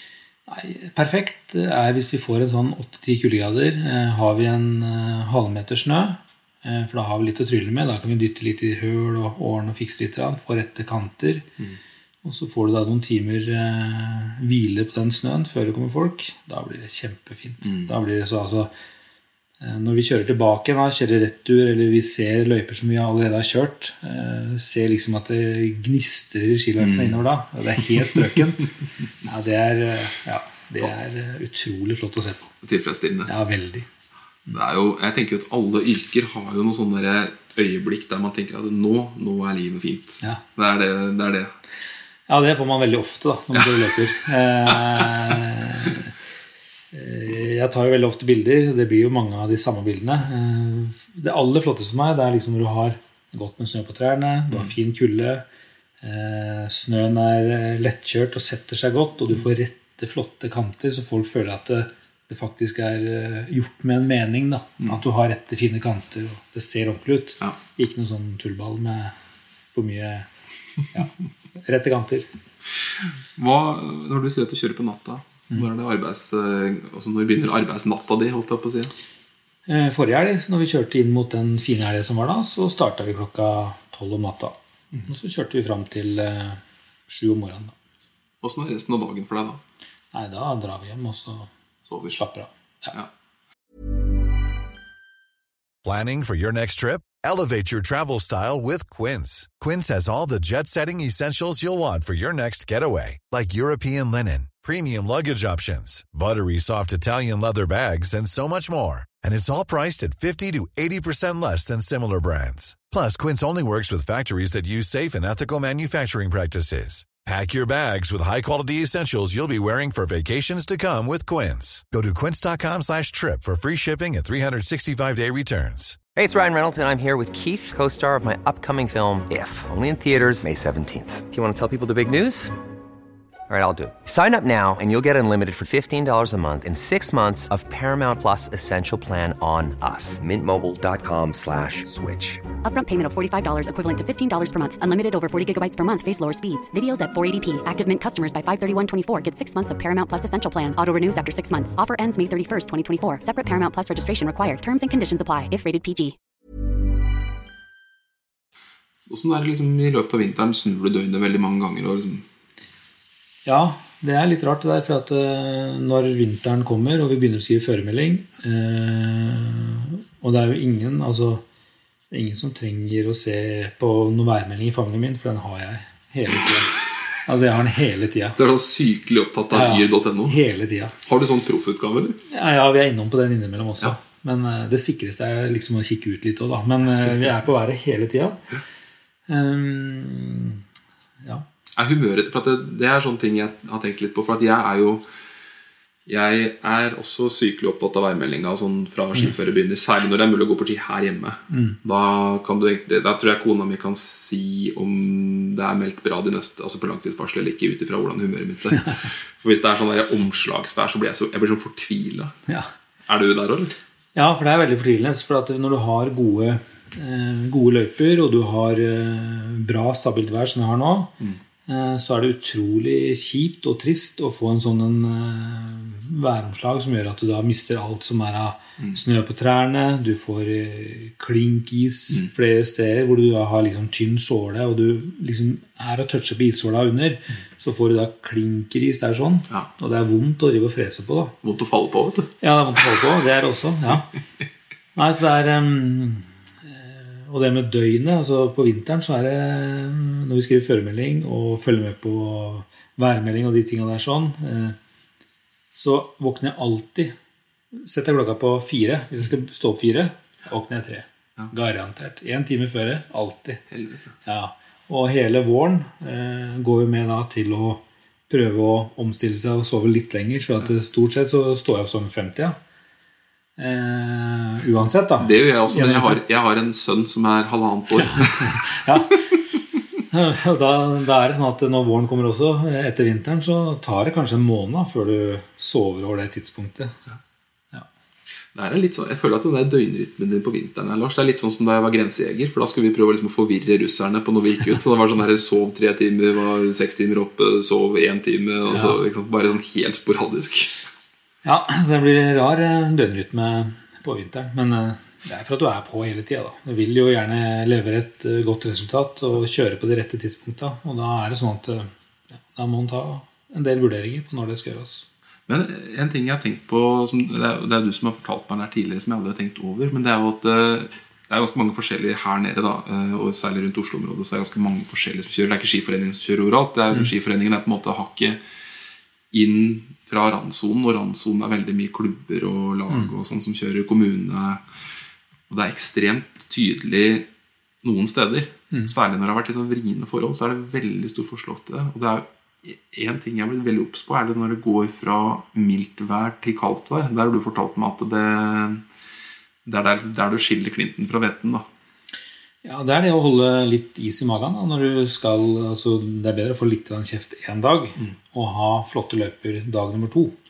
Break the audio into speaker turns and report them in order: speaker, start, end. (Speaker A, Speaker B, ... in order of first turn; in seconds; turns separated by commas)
Speaker A: 0.5-11.5, Speaker A: 12.2-18.7, Speaker B: 17.6-17.9, Speaker A: 19.6-32.5, Speaker B: 26.8-27.2, Speaker B: 32.6-33.3, Speaker A: 33.3-33.9, Speaker B: 34.5-41.5, Speaker A: 42.3-46.1, Speaker B: 43.5-43.8, Speaker A: 46.9-55.4, Speaker A: 56.0-69.1, Speaker A: 69.7-70.3, Speaker A: 70.9-72.3, Speaker B: 73.0-78.9, Speaker A: 79.7-87.7, Speaker B: 88.4-89.6, Speaker A: 90.1-91.5, Speaker B: 91.9-92.2, Speaker A: 92.0-92.9, Speaker C: 95.8-126.0, Speaker D: 126.1-132.5, Speaker D: 133.5-142.4, Speaker E: 142.6-156.2, Speaker B: 159.1-162.2, Speaker A: 163.4-171.4, Speaker A: 172.1-178.4, Speaker B: 178.3-180.4, Speaker A: 179.5-180.9, Speaker B: 181.0-182.2, Speaker A: 182.3-188.4, Speaker A: 189.3-190.6, Speaker B: 191.8-195.1, Speaker B: 196.1-212.3, Speaker A: 201.5-201.8, Speaker B: 213.1-213.7, Speaker A: 214.1-221.1, Speaker A: 221.7-241.3, Speaker B: 241.4-242.3, Speaker A: 242.4-244.1, Speaker A: 244.9-254.8, Speaker A: 255.7-257.1, Speaker A: 257.7-263.6, Speaker B: 263.7-264.1, Speaker A: 264.2-272.6, Speaker A: 273.6-276.2, Speaker B: 275.2-278.6, Speaker A: 277.9-279.2, Speaker A: 280.1-286.9, Speaker B: 288.5-300.8, Speaker A: 298.7-299.0, Speaker A: 301.4-315.1, Speaker B: 315.5-328.4, Speaker B: 329.3-334.6, Speaker B: 335.5-337.3, Speaker B: 337.8-348.8, Speaker B: 349.6-351.7, Speaker A: 352.6-360.3